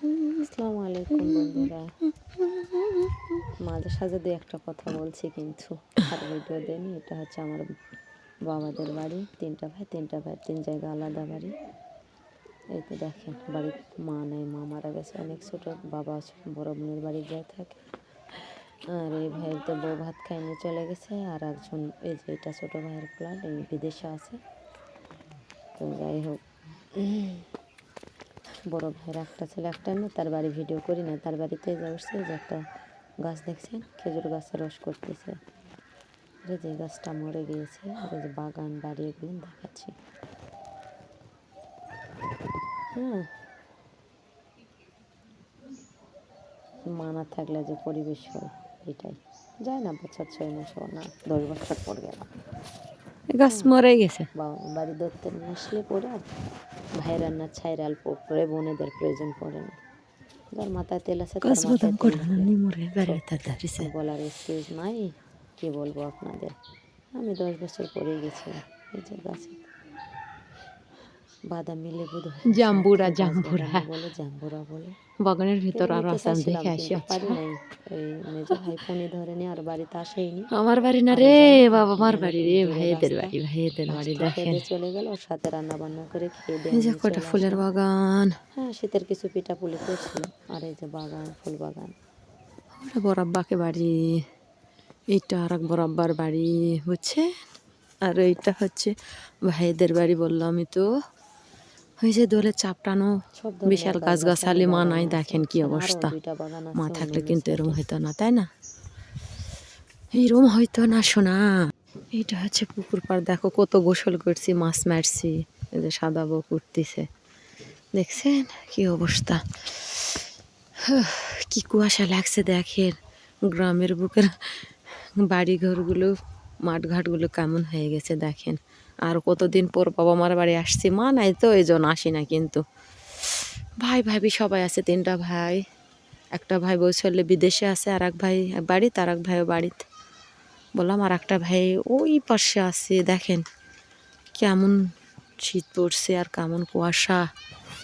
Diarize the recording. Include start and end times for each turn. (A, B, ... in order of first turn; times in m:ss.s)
0:00.4-0:01.9 A
0:01.2-0:01.7 B
0:02.6-0:02.9 B
0:03.6-0:07.7 A
0:08.5-0:11.5 A
0:12.8-0:17.8 A
0:18.9-0:24.4 A
0:25.8-0:26.4 A
0:27.0-0:27.4 A
0:28.7-0:32.6 A
0:33.2-0:35.4 A
0:36.4-0:39.9 A
0:43.0-0:43.3 A
0:46.9-0:52.3 A
0:53.3-0:54.3 B
0:54.4-0:56.2 A
0:57.0-0:59.8 A
1:00.5-1:02.5 A
1:01.4-1:03.9 B
1:03.8-1:06.6 A
1:07.1-1:09.7 A
1:11.5-1:15.0 A
1:12.5-1:13.9 B
1:15.2-1:17.4 B
1:15.7-1:20.5 A
1:20.5-1:24.6 B
1:21.1-1:23.4 A
1:23.9-1:27.6 A
1:26.7-1:28.4 B
1:28.6-1:32.0 A
1:32.8-1:34.2 B
1:35.1-1:37.2 B
1:38.0-1:40.8 B
1:42.0-1:46.1 B
1:43.4-1:47.8 A
1:46.8-1:48.5 B
1:50.1-1:51.6 B
1:52.1-1:57.0 B
1:58.0-2:00.2 B
2:00.8-2:06.1 B
2:06.6-2:12.6 B
2:13.3-2:15.6 B
2:16.3-2:19.8 B
2:20.8-2:23.4 B
2:24.4-2:24.8 B
2:25.4-2:27.2 B